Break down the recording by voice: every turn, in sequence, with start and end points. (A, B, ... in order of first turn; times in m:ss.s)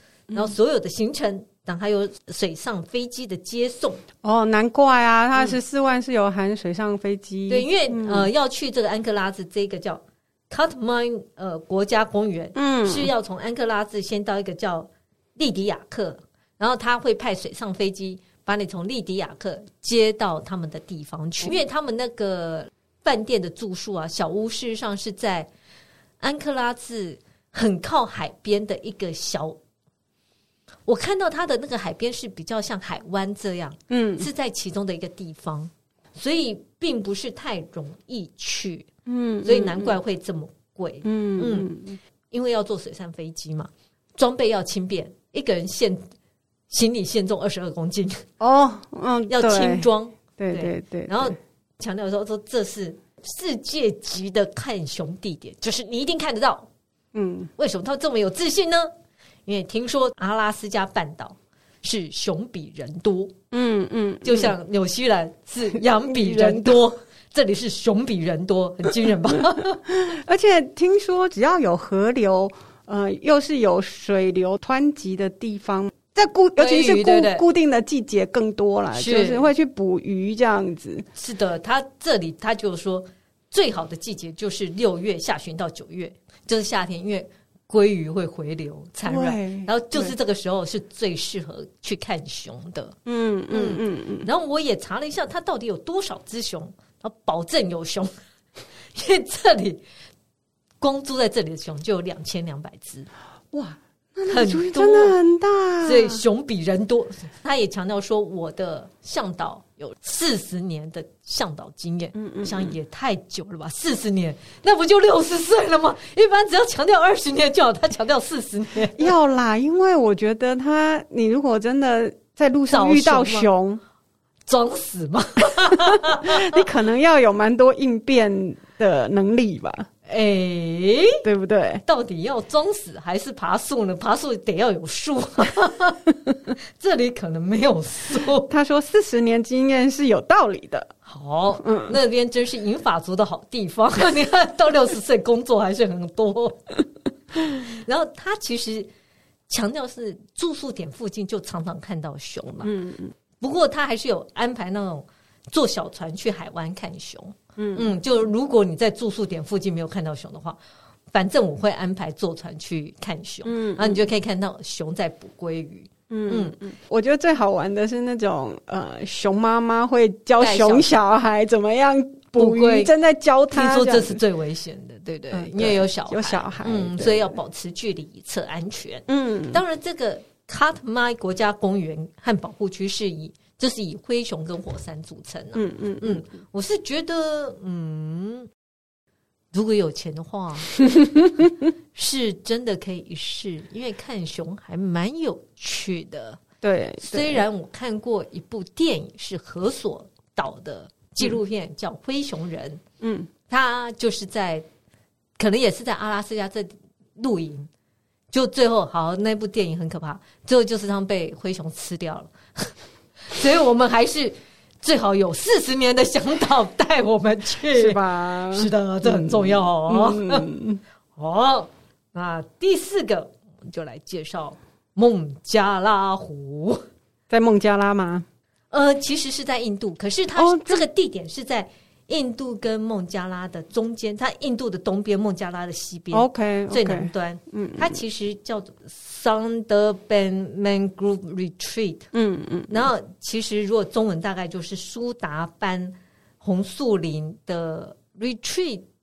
0:00.3-0:04.0 A
0:04.2-0:08.3 B
0:07.5-0:25.5 A
0:12.6-0:13.1 B
0:26.2-0:29.6 A
0:30.9-0:38.9 A
0:33.9-0:34.3 B
0:39.1-0:40.0 B
0:39.4-0:41.7 A
0:41.0-0:42.0 B
0:42.3-0:46.1 A
0:46.7-0:48.2 A
0:48.4-0:51.4 B
0:49.3-0:56.7 A
0:57.1-0:57.5 B
0:57.6-0:58.9 A
0:59.5-1:03.4 A
1:03.5-1:04.5 B
1:04.2-1:09.8 A
1:05.8-1:06.8 B
1:09.9-1:21.1 B
1:16.6-1:17.4 A
1:18.9-1:19.5 A
1:21.2-1:33.0 A
1:29.1-1:30.2 B
1:33.1-1:34.3 B
1:33.5-1:38.1 A
1:38.9-1:39.8 A
1:40.8-1:43.1 A
1:43.5-1:46.2 B
1:44.3-1:45.2 A
1:45.8-1:59.1 A
1:52.2-1:52.8 B
1:58.9-2:03.8 B
2:02.7-2:03.5 A
2:04.5-2:06.6 A
2:05.9-2:09.9 B
2:10.1-2:11.2 A
2:11.2-2:11.8 B
2:11.9-2:18.5 A
2:18.5-2:20.9 B
2:21.1-2:26.8 A
2:21.6-2:22.0 B
2:27.5-2:28.9 A
2:29.5-2:32.7 A
2:32.6-2:33.1 B
2:33.4-2:40.6 A
2:37.6-2:38.0 B
2:41.1-2:46.6 A
2:43.4-2:44.0 B
2:46.1-2:54.2 B
2:50.4-2:50.9 A
2:52.4-2:52.9 A
2:53.5-3:08.5 A
2:55.3-2:57.4 B
2:59.1-2:59.6 B
3:05.6-3:06.2 B
3:09.5-3:10.8 A
3:11.9-3:16.4 A
3:16.6-3:17.4 B
3:17.0-3:22.8 A
3:23.0-3:23.3 B
3:23.5-3:24.6 A
3:25.4-3:27.7 A
3:28.3-3:32.7 A
3:33.3-3:40.5 A
3:37.7-3:40.8 B
3:41.2-3:46.8 A
3:47.3-3:48.3 B
3:48.7-4:02.1 A
3:50.4-3:50.8 B
3:56.1-3:58.0 B
4:02.1-4:02.9 B
4:02.7-4:08.8 A